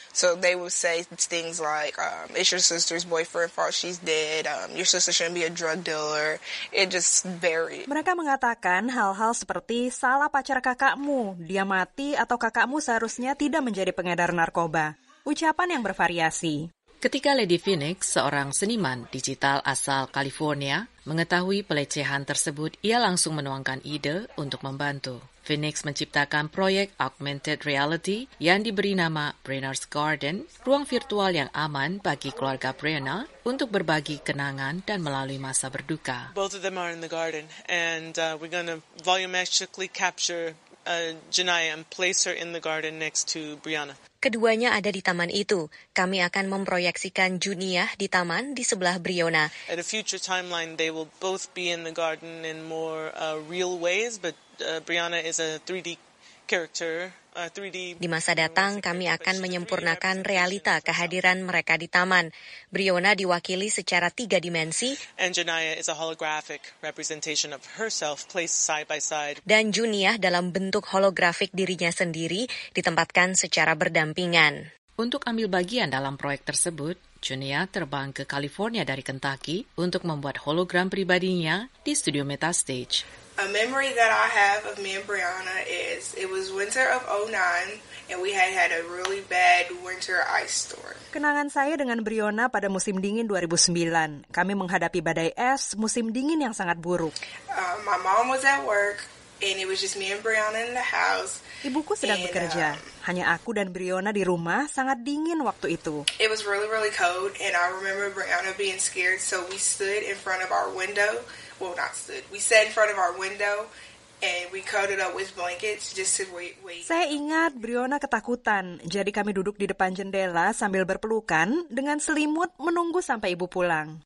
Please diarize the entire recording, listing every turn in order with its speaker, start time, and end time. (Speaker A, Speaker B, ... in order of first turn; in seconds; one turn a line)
Speaker A: 0.1-7.9
Speaker B: 7.9-16.6
Speaker C: 17.0-36.3
Speaker D: 36.3-44.0
Speaker E: 44.2-49.5
Speaker D: 49.7-61.4
Speaker E: 58.0-65.0
Speaker D: 65.2-69.4
Speaker E: 69.5-74.5
Speaker C: 75.0-83.0
Speaker A: 83.4-91.0
Speaker B: 91.1-97.1
Speaker A: 97.5-101.4
Speaker B: 101.6-106.0
Speaker A: 102.0-102.9
Speaker A: 106.2-113.7
Speaker A: 114.2-116.9
Speaker B: 116.8-124.0